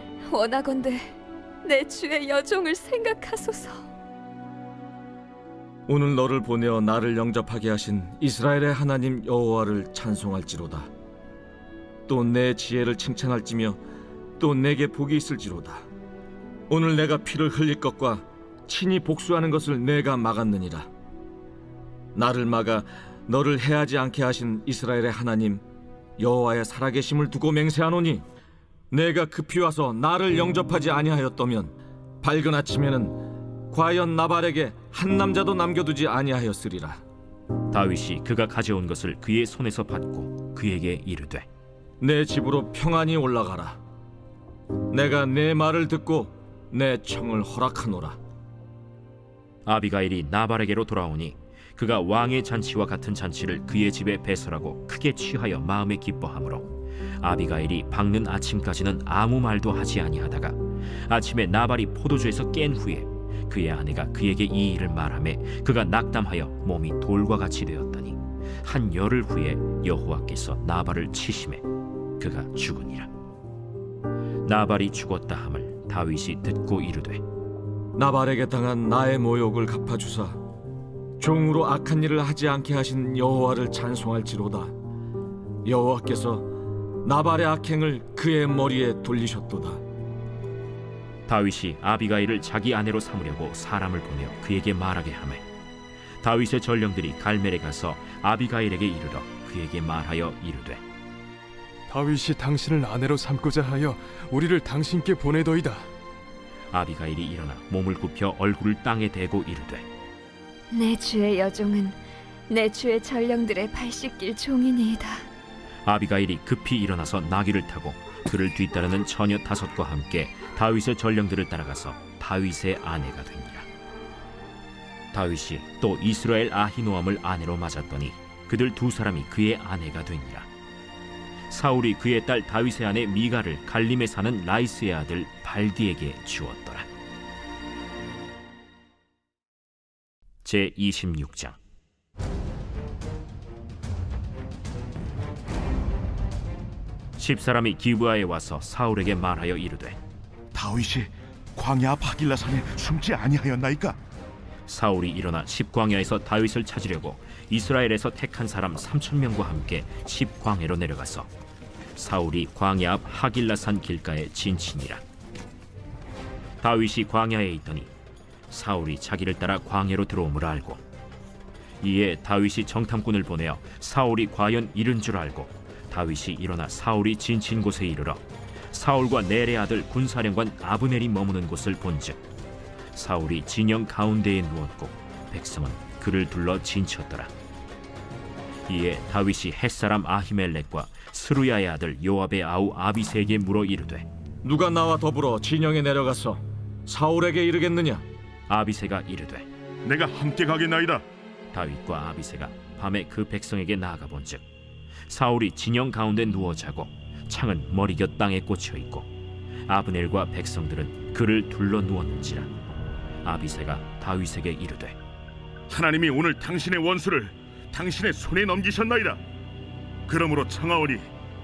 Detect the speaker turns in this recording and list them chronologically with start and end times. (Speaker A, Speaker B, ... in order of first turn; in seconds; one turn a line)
Speaker A: 0.3-3.8
Speaker B: 5.8-10.9
Speaker B: 12.1-13.8
Speaker B: 14.4-15.8
Speaker B: 16.7-20.9
Speaker B: 22.1-25.6
Speaker B: 26.2-28.2
Speaker B: 28.9-37.0
Speaker C: 37.7-41.5
Speaker B: 42.0-43.8
Speaker B: 44.9-48.2
Speaker C: 49.6-71.6
Speaker C: 72.2-73.1
Speaker C: 74.4-77.2
Speaker B: 77.9-80.4
Speaker B: 81.2-84.7
Speaker B: 85.6-89.8
Speaker C: 91.3-95.4
Speaker C: 96.2-100.8
Speaker D: 101.9-105.9
Speaker C: 106.7-109.8
Speaker A: 110.7-115.2
Speaker C: 115.8-123.7
Speaker C: 125.1-130.5
Speaker C: 131.5-136.9
Speaker C: 140.4-141.6
Speaker C: 147.2-150.0
Speaker E: 150.5-154.0
Speaker C: 154.7-161.3
Speaker C: 161.9-165.0
Speaker C: 166.6-167.9
Speaker C: 168.5-170.8
Speaker C: 171.8-182.2
Speaker C: 182.9-187.3
Speaker C: 188.7-194.1
Speaker B: 194.4-198.0
Speaker C: 198.5-199.5
Speaker E: 199.8-201.0
Speaker C: 201.5-204.4
Speaker C: 205.1-209.1
Speaker C: 209.7-212.5
Speaker C: 213.2-214.9
Speaker E: 215.7-219.2
Speaker E: 220.1-221.1